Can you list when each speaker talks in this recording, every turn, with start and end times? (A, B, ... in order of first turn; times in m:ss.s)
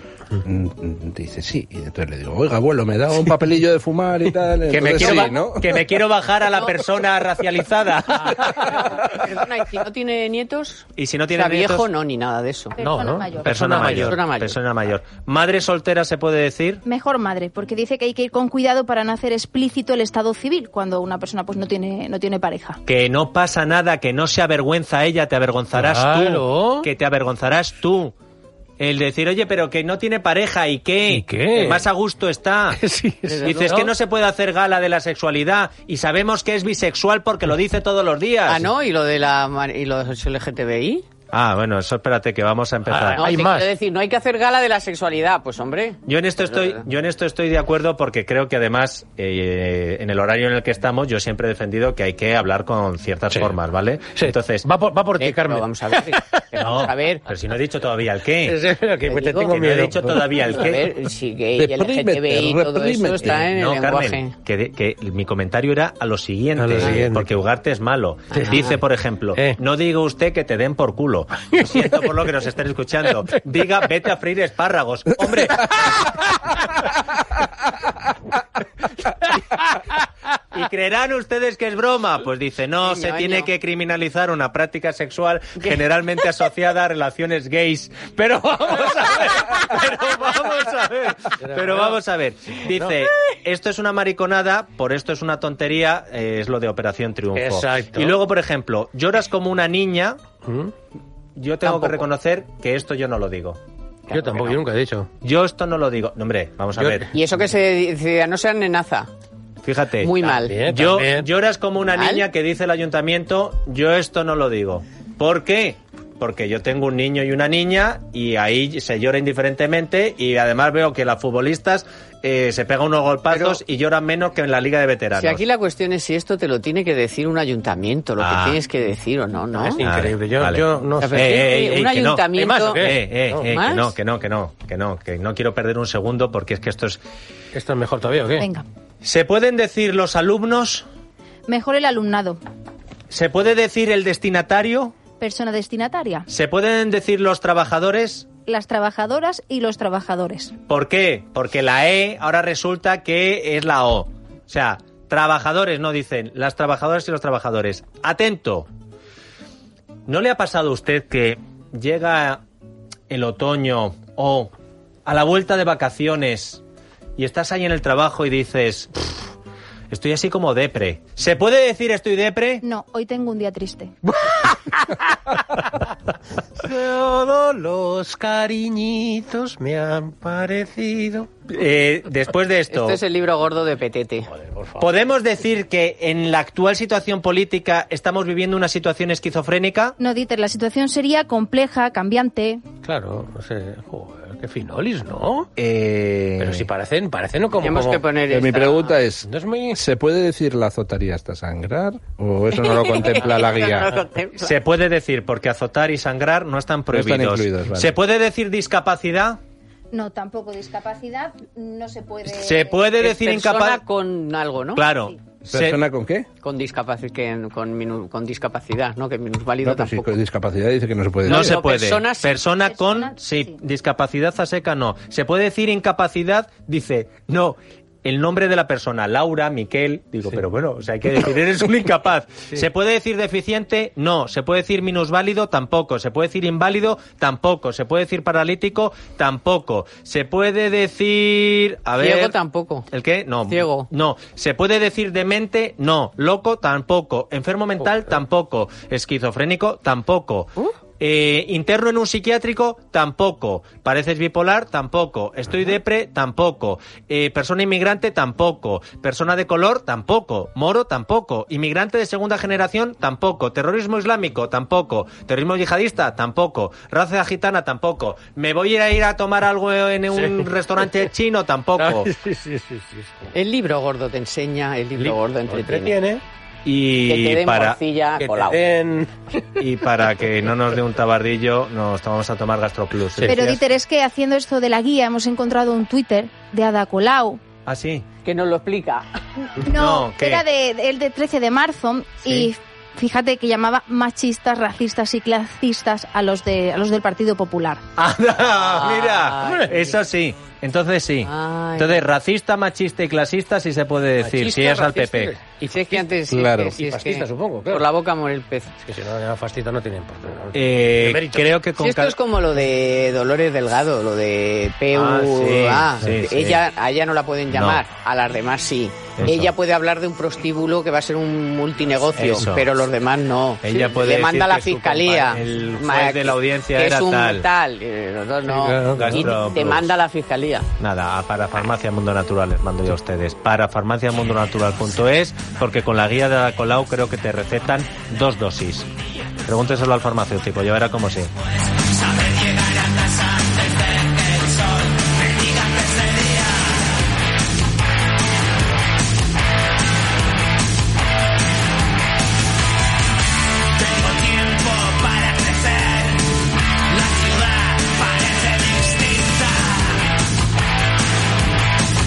0:00.4-0:05.8 A
0:04.7-0:08.3 B
0:06.4-0:06.8 C
0:08.3-0:12.8 C
0:11.0-0:11.9 B
0:12.8-0:13.6 D
0:12.8-0:14.2 E
0:13.4-0:16.8 B
0:13.7-0:14.6 C
0:16.8-0:22.8 D
0:22.8-0:28.1 B
0:25.7-0:26.9 E
0:28.8-0:32.8 B
0:31.1-0:31.9 E
0:32.7-0:33.9 E
0:33.3-0:33.7 C
0:33.4-0:38.6 B
0:38.5-0:41.0 C
0:41.3-0:43.2 B
0:42.9-0:43.7 E
0:43.1-0:46.8 C
0:46.1-0:54.7 B
0:54.1-0:56.9 E
0:55.2-0:57.3 C
0:56.6-0:58.6 B
0:58.4-1:00.7 E
0:59.0-0:59.7 C
0:59.7-1:00.9 B
1:00.4-1:04.3 C
1:01.6-1:03.4 A
1:03.2-1:15.9 B
1:06.6-1:07.4 E
1:06.8-1:07.0 C
1:08.3-1:08.8 C
1:08.3-1:08.8 E
1:09.3-1:09.6 E
1:11.5-1:12.2 E
1:15.4-1:16.6 E
1:19.2-1:20.0 E
1:20.5-1:40.2 B
1:22.8-1:23.5 C
1:28.6-1:29.4 E
1:30.1-1:30.4 E
1:31.4-1:32.0 E
1:32.6-1:33.0 E
1:37.4-1:38.2 E
1:40.4-1:40.7 E
1:41.4-1:43.6 B
1:41.6-1:42.1 C
1:44.1-1:44.5 C
1:44.1-1:45.1 E
1:45.2-1:47.1 B
1:46.8-1:47.1 E
1:47.1-1:49.1 C
1:49.6-2:05.4 B
1:50.0-1:50.6 C
1:50.3-1:51.3 E
1:51.8-1:52.3 C
2:03.3-2:03.6 C
2:05.1-2:09.8 C
2:08.2-2:08.6 B
2:09.6-2:11.5 E
2:09.8-2:17.0 B
2:11.0-2:13.9 C
2:12.3-2:13.6 E
2:17.5-2:18.5 E
2:18.4-2:18.7 D
2:19.0-2:20.9 B
2:21.5-2:22.4 D
2:23.1-2:25.0 B
2:25.2-2:26.3 D
2:26.3-2:28.3 B
2:28.5-2:30.6 D
2:30.7-2:38.7 B
2:40.1-2:42.4 B
2:43.1-2:44.5 B
2:45.1-2:46.6 B
2:47.2-2:49.1 B
2:49.9-2:52.6 B
2:52.6-2:53.9 D
2:54.2-2:55.9 E
2:56.6-3:01.3 E
3:01.5-3:03.0 B
3:02.7-3:04.3 C
3:04.3-3:04.9 E
3:04.8-3:10.0 B
3:10.0-3:12.6 D
3:12.8-3:15.5 E
3:15.6-3:16.7 B
3:16.4-3:18.1 E
3:17.6-3:19.0 C
3:18.3-3:24.0 A
3:19.2-3:19.8 E
3:22.5-3:24.6 C
3:24.4-3:29.4 B
3:26.9-3:28.0 A
3:29.9-3:32.8 D
3:32.3-3:33.8 B
3:33.0-3:34.9 C
3:34.7-3:35.8 B
3:35.5-3:36.3 A
3:36.4-3:40.2 C
3:39.6-3:41.6 A
3:41.2-3:42.3 C
3:41.2-4:02.4 B
3:42.6-3:43.6 D
4:02.0-4:02.9 C
4:02.9-4:32.1 B
4:03.5-4:03.9 C
4:07.8-4:08.1 E
4:30.1-4:31.0 E
4:31.8-4:33.3 E
4:33.3-4:36.0 C
4:35.0-4:36.2 E
4:36.6-4:37.8 B
4:37.0-4:38.6 C
4:38.2-4:39.7 E
4:39.6-4:43.3 B
4:43.2-4:43.6 E
4:43.3-4:47.4 D
4:47.7-4:48.1 B
4:48.2-4:49.0 C
4:49.5-4:57.8 D
4:49.7-4:50.4 B
4:58.0-5:05.3 B
4:58.5-5:00.0 C
4:59.4-4:59.8 E
5:01.2-5:02.1 C
5:04.2-5:06.2 E
5:05.7-5:08.7 C
5:06.3-5:06.8 A
5:06.8-5:07.9 E
5:08.8-5:11.5 E
5:10.5-5:12.2 B
5:11.8-5:30.7 C
5:14.9-5:16.6 B
5:17.5-5:17.8 B
5:19.2-5:19.5 B
5:22.2-5:22.7 B
5:23.6-5:27.5 B
5:28.4-5:29.3 E
5:28.9-5:30.0 B
5:30.8-5:38.9 B
5:39.4-5:41.3 B
5:42.0-5:46.6 B
5:53.8-5:56.2 B
5:56.9-5:59.9 B